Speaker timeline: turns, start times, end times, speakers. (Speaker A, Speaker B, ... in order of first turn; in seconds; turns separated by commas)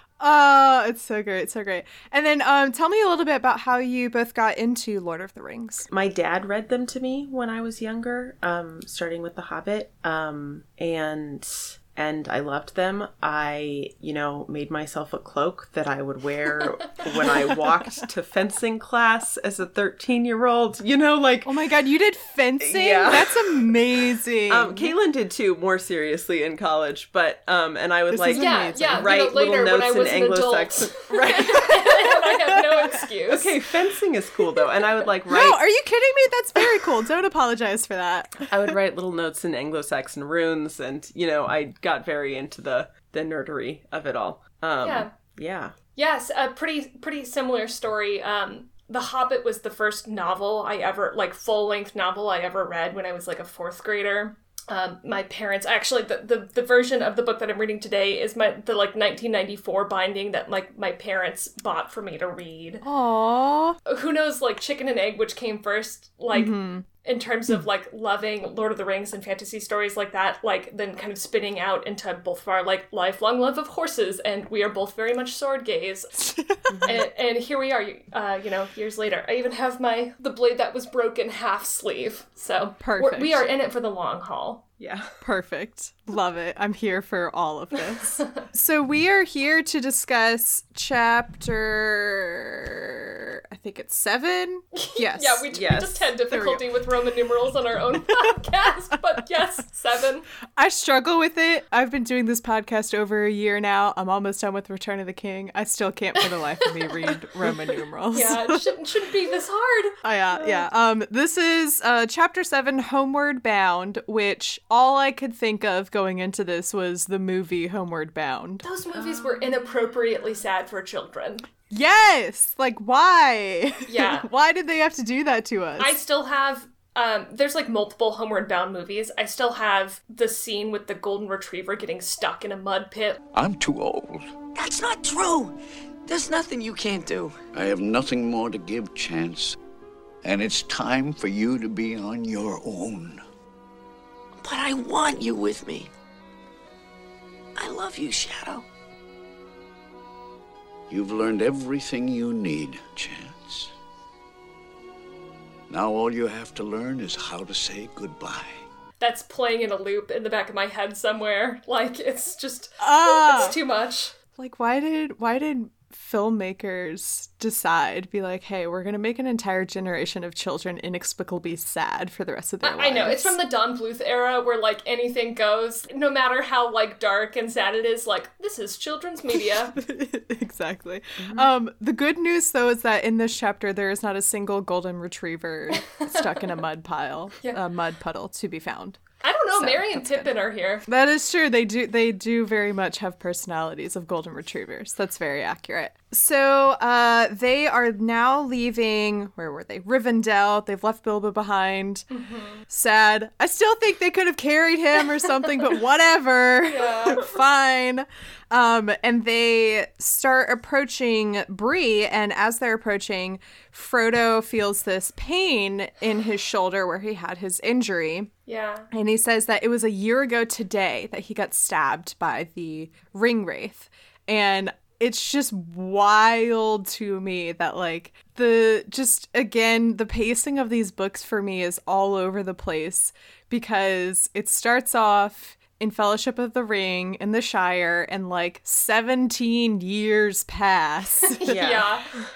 Speaker A: 0.2-5.9, Speaker B: 5.9-21.5, Speaker C: 16.6-17.0, Speaker A: 21.4-24.9, Speaker B: 22.6-23.6, Speaker B: 24.5-31.8, Speaker A: 28.1-29.1, Speaker C: 28.3-33.5, Speaker A: 31.3-31.7, Speaker A: 32.5-33.0, Speaker B: 33.3-35.6, Speaker A: 35.3-38.5, Speaker B: 38.5-45.7, Speaker C: 44.8-45.1, Speaker C: 46.0-62.8, Speaker A: 62.8-63.8, Speaker C: 63.9-76.3, Speaker A: 66.3-66.8, Speaker A: 76.3-76.9, Speaker B: 76.7-77.0, Speaker C: 76.8-84.6, Speaker A: 82.8-83.4, Speaker B: 84.8-85.1, Speaker A: 85.2-95.5, Speaker C: 94.7-100.2, Speaker B: 95.5-96.0, Speaker A: 96.3-96.6, Speaker A: 100.5-108.7, Speaker C: 106.8-107.1, Speaker C: 108.1-109.9, Speaker A: 110.0-118.6, Speaker C: 118.6-121.5, Speaker A: 121.7-126.0, Speaker C: 123.8-124.3, Speaker C: 125.8-133.2, Speaker D: 133.3-134.3, Speaker E: 134.5-137.4, Speaker D: 137.5-139.6, Speaker D: 140.2-143.2, Speaker E: 144.4-145.9, Speaker E: 147.6-148.6, Speaker D: 150.9-153.7, Speaker D: 155.7-158.6, Speaker C: 159.0-164.1, Speaker A: 162.8-163.5, Speaker A: 164.4-173.4, Speaker C: 172.6-179.8, Speaker A: 179.8-189.0, Speaker B: 181.2-181.5, Speaker C: 185.8-186.2, Speaker C: 189.2-190.8, Speaker A: 189.5-190.3, Speaker A: 190.9-202.0, Speaker C: 202.1-202.6, Speaker A: 202.7-218.3, Speaker C: 206.7-207.3, Speaker C: 218.5-218.9, Speaker A: 218.9-241.4, Speaker C: 241.3-242.1, Speaker B: 241.5-241.9